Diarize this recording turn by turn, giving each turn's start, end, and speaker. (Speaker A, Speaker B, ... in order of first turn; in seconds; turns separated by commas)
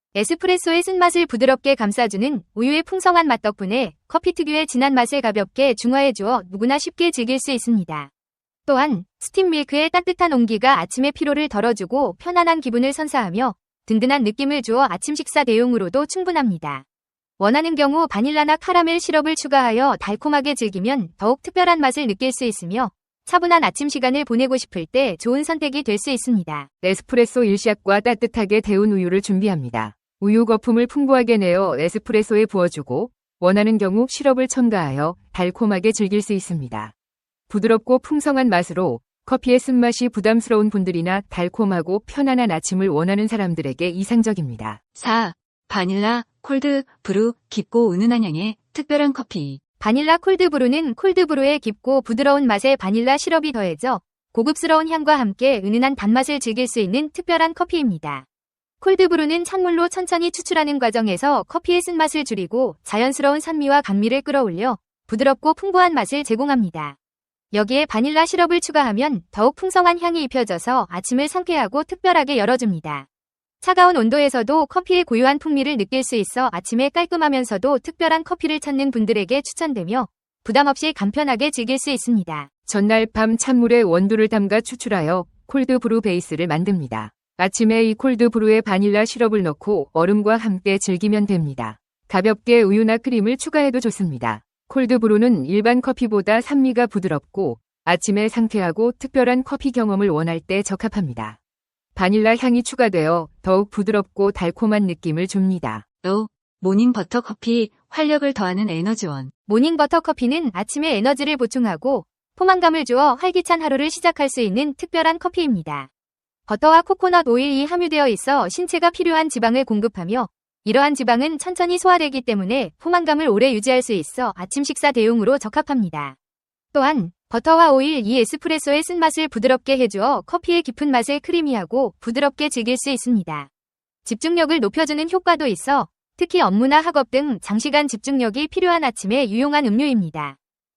Speaker A: 0.1-8.1, Speaker A: 8.7-16.8, Speaker A: 17.4-26.7, Speaker B: 26.8-36.9, Speaker B: 37.5-44.8, Speaker C: 44.9-49.6, Speaker A: 49.8-58.2, Speaker A: 58.8-66.9, Speaker A: 67.5-73.0, Speaker A: 73.6-82.5, Speaker B: 82.7-101.4, Speaker B: 101.9-105.8, Speaker C: 106.0-109.3, Speaker A: 109.5-115.9, Speaker A: 116.5-126.1, Speaker A: 126.7-133.5, Speaker A: 134.1-140.3